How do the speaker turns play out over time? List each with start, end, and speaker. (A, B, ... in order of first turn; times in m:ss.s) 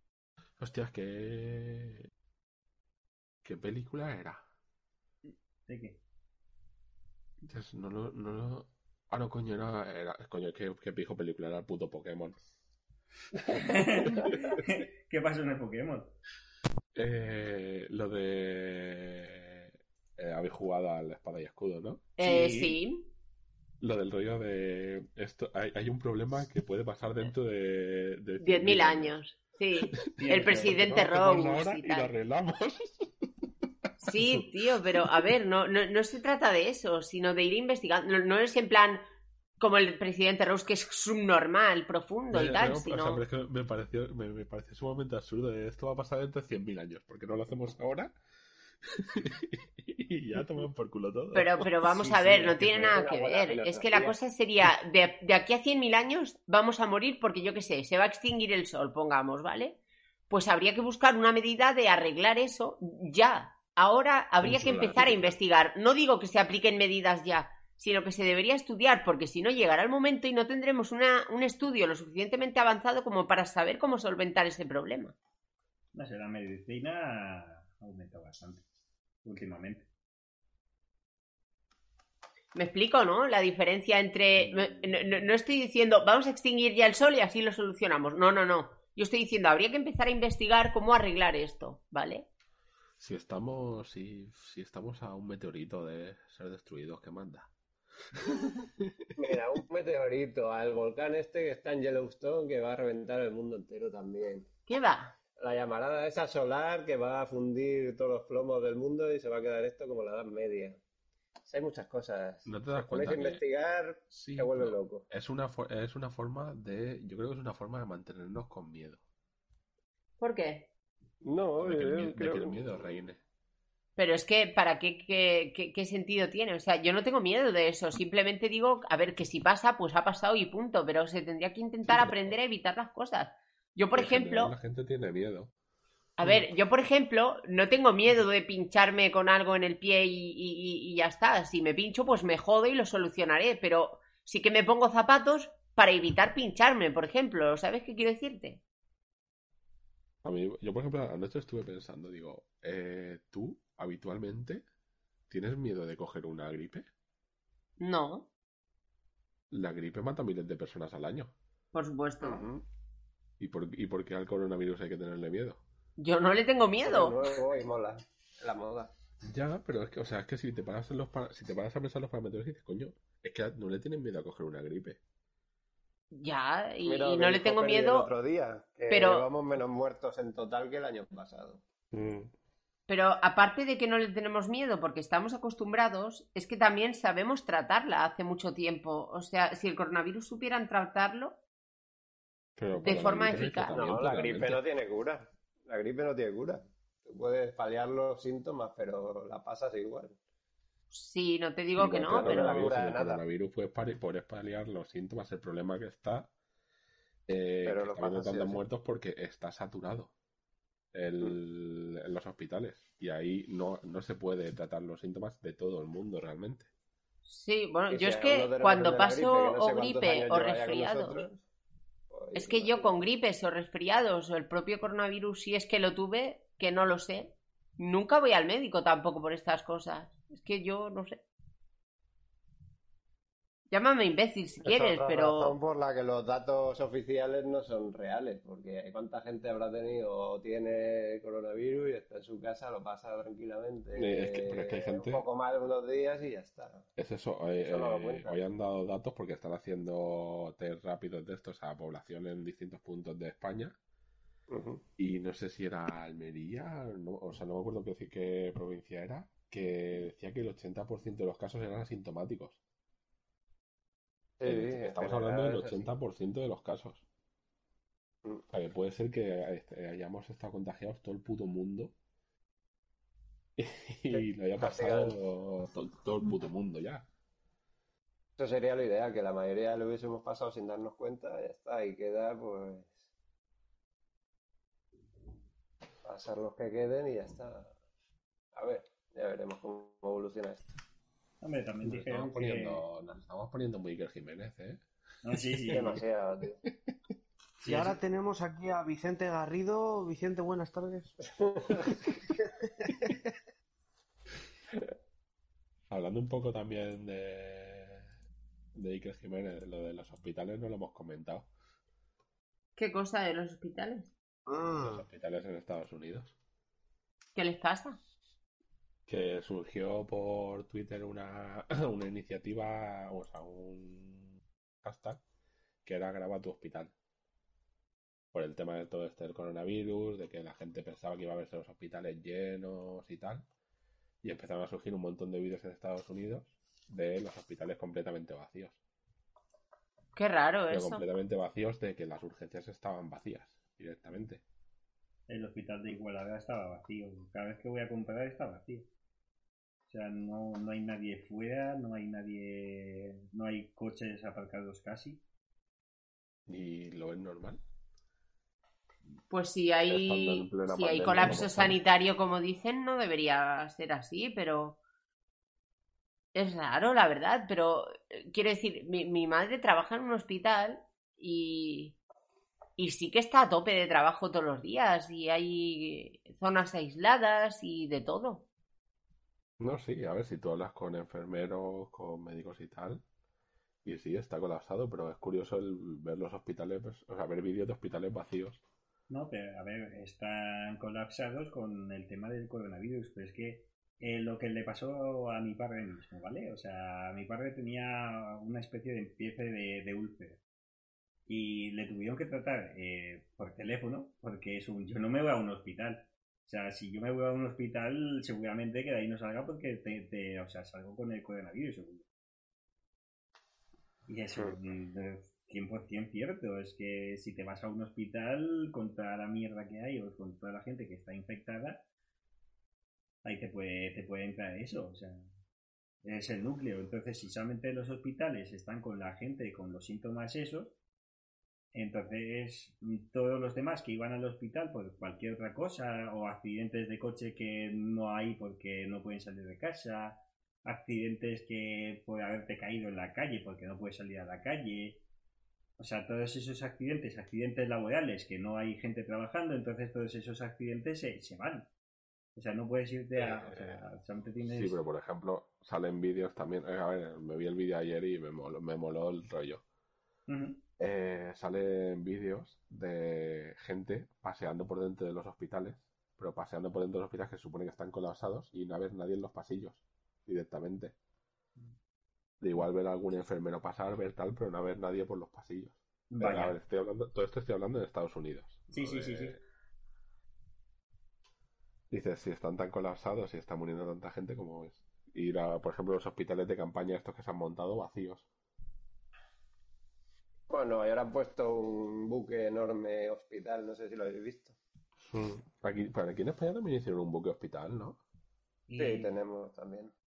0:00.6-0:02.1 A
0:03.4-0:04.4 A
0:05.7-0:06.0 B
0:07.5-0:12.4 A
0:13.6-0:16.1 B
0:17.0-0:22.8 A
0:22.2-0:23.0 C
0:23.8-0:29.2 A
0:28.4-0:32.1 C
0:29.9-0:33.1 A
0:34.0-0:39.0 C
0:34.0-0:34.4 A
0:39.6-0:43.2 C
0:42.3-0:48.1 A
0:48.9-0:51.6 A
0:51.3-0:59.8 C
0:52.1-0:54.2 D
1:00.3-1:15.2 C
1:04.4-1:05.4 A
1:15.9-1:18.6 B
1:19.2-1:19.9 B
1:22.6-1:32.2 C
1:24.4-1:25.1 B
1:33.0-1:37.5 A
1:38.2-1:39.1 A
1:39.2-1:44.5 D
1:44.7-1:45.1 C
1:45.4-1:50.8 D
1:51.5-1:55.1 D
1:52.5-1:53.4 A
1:54.1-1:59.0 A
2:00.2-2:00.7 C
2:01.2-2:03.0 D
2:01.6-2:03.2 A
2:04.0-2:14.5 C
2:11.9-2:12.3 A
2:13.9-2:15.5 A
2:16.2-2:28.6 C
2:30.2-2:34.6 A
2:35.3-2:36.9 A
2:37.8-2:38.3 C
2:39.5-2:41.3 A
2:41.7-2:42.4 C
2:42.2-2:42.6 D
2:43.4-2:45.6 A
2:46.0-2:47.2 C
2:46.8-2:48.9 D
2:49.2-2:55.0 A
2:56.1-2:58.1 C
2:56.9-3:01.6 D
2:58.9-2:59.3 C
3:01.9-3:02.3 A
3:02.9-3:11.4 C
3:12.6-3:14.7 A
3:12.8-3:13.8 C
3:13.0-3:20.2 D
3:20.9-3:22.5 C
3:21.8-3:26.3 A
3:22.1-3:23.2 D
3:27.3-3:30.1 A
3:27.6-3:28.6 D
3:30.9-3:36.7 A
3:37.3-3:41.2 C
3:37.9-3:41.4 D
3:42.1-3:43.0 D
3:42.4-3:51.2 C
3:53.7-3:55.6 C
3:54.6-4:06.9 D
4:03.9-4:05.2 A
4:07.0-4:13.8 A
4:07.6-4:08.4 D
4:14.5-4:14.8 D
4:15.0-4:22.6 A
4:24.4-4:25.9 D
4:24.4-4:27.0 A
4:28.5-4:31.9 A
4:33.6-4:37.0 A
4:34.1-4:35.2 D
4:38.4-4:43.0 D
4:46.0-4:47.7 D
4:48.6-4:50.6 D
4:51.4-4:52.8 B
4:51.8-4:54.8 A
4:55.2-4:56.0 B
4:55.7-4:56.6 D
4:57.6-4:58.0 B
4:57.6-5:01.2 E
5:01.3-5:02.1 D
5:02.8-5:03.3 E
5:05.9-5:08.0 A
5:08.8-5:11.5 A
5:12.8-5:14.1 C
5:14.5-5:15.0 E
5:14.8-5:16.3 A
5:17.4-5:18.0 C
5:19.1-5:25.2 A
5:25.8-5:26.9 A
5:28.3-5:33.4 A
5:34.2-5:38.8 A
5:40.2-5:41.0 C
5:40.7-5:44.4 A
5:45.3-5:48.9 B
5:49.9-5:55.2 B
5:56.5-5:57.6 A
5:59.3-6:04.8 C
5:59.9-6:01.8 A
6:06.3-6:12.0 C
6:12.8-6:18.4 C
6:19.6-6:23.0 A
6:23.8-6:28.6 A
6:29.1-6:40.4 B
6:41.3-6:52.0 B
6:54.1-7:01.8 B
7:03.2-7:05.3 B
7:06.0-7:10.7 B
7:11.7-7:25.0 B
7:25.8-7:31.7 B
7:32.4-7:34.8 B
7:33.2-7:33.8 A
7:34.4-7:39.6 A
7:40.3-7:40.6 B
7:40.8-7:50.9 A
7:52.4-7:59.4 A
7:56.1-7:56.6 B
7:58.7-7:59.4 B
8:01.9-8:08.3 A
8:10.5-8:14.6 D
8:15.1-8:18.0 A
8:18.7-8:19.1 B
8:18.8-8:19.9 D